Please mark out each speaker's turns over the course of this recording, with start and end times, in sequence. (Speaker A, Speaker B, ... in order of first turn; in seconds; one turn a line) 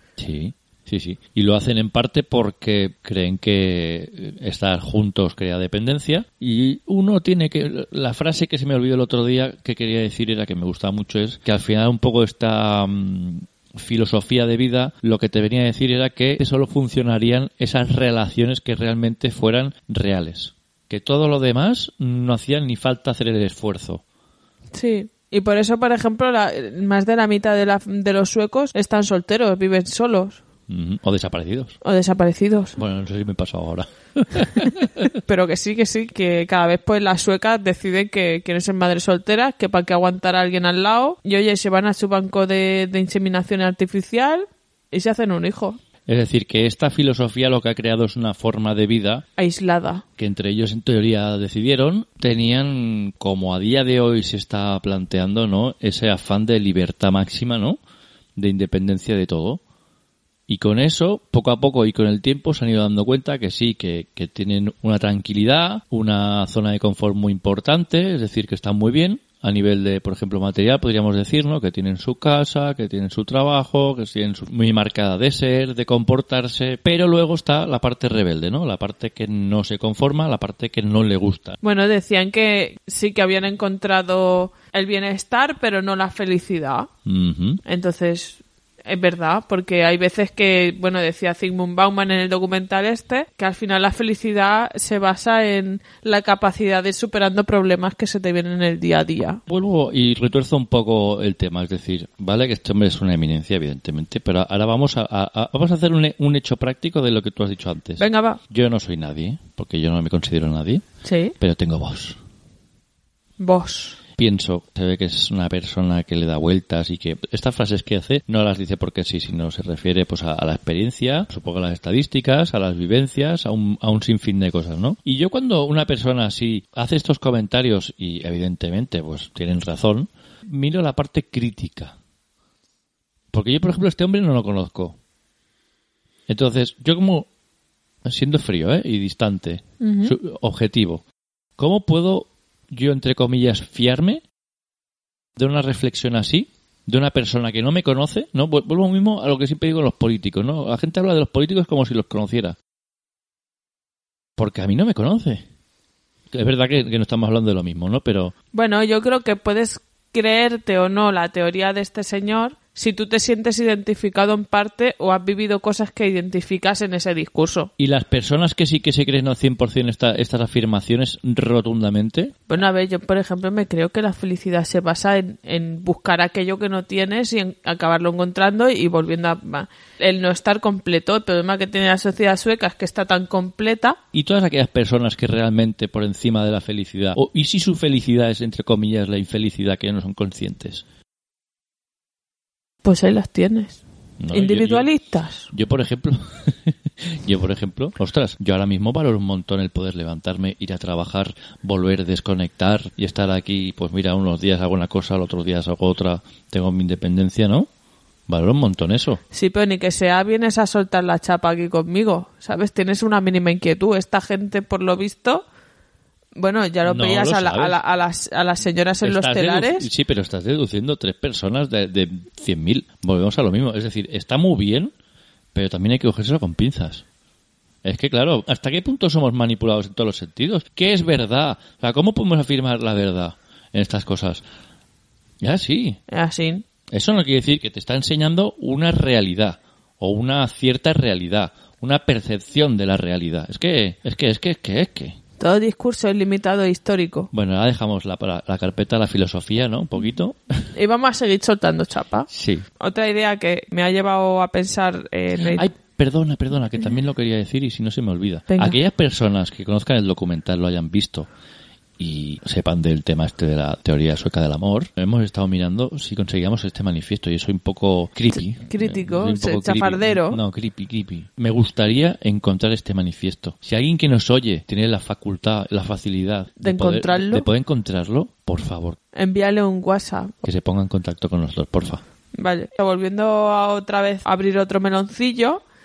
Speaker A: 0.2-24.0
Speaker B: 24.7-30.4
Speaker A: 30.7-31.8
Speaker B: 31.8-32.8
Speaker A: 32.8-35.0
Speaker B: 35.1-45.8
Speaker A: 46.1-49.2
Speaker B: 49.4-50.0
Speaker A: 50.2-57.8
Speaker A: 58.4-59.6
Speaker A: 60.5-81.6
Speaker B: 81.6-86.9
Speaker A: 87.0-87.6
Speaker B: 87.6-99.4
Speaker A: 99.5-110.8
Speaker B: 108.0-108.4
Speaker B: 111.0-111.3
Speaker A: 111.4-112.2
Speaker B: 113.4-114.0
Speaker A: 114.2-131.9
Speaker A: 133.3-134.9
Speaker A: 136.3-137.3
Speaker A: 138.0-141.0
Speaker B: 139.8-140.2
Speaker A: 141.6-144.2
Speaker A: 145.3-152.6
Speaker A: 154.4-155.4
Speaker A: 156.3-158.3
Speaker B: 158.5-167.7
Speaker A: 167.8-172.5
Speaker B: 172.5-184.0
Speaker A: 184.1-190.8
Speaker B: 192.8-195.5
Speaker A: 194.2-194.9
Speaker A: 195.5-207.7
Speaker A: 208.3-209.2
Speaker B: 209.3-215.4
Speaker B: 216.4-219.9
Speaker A: 216.8-217.8
Speaker A: 219.0-224.9
Speaker A: 225.5-227.0
Speaker A: 227.8-234.4
Speaker A: 235.4-236.0
Speaker B: 236.1-236.6
Speaker A: 236.9-245.2
Speaker B: 245.4-247.3
Speaker A: 247.3-250.7
Speaker B: 250.7-252.3
Speaker A: 252.3-252.7
Speaker B: 252.8-255.7
Speaker A: 255.4-261.3
Speaker B: 258.5-258.8
Speaker A: 262.0-279.0
Speaker B: 268.4-270.4
Speaker B: 276.6-277.4
Speaker B: 279.1-280.4
Speaker A: 280.4-282.0
Speaker B: 282.3-285.6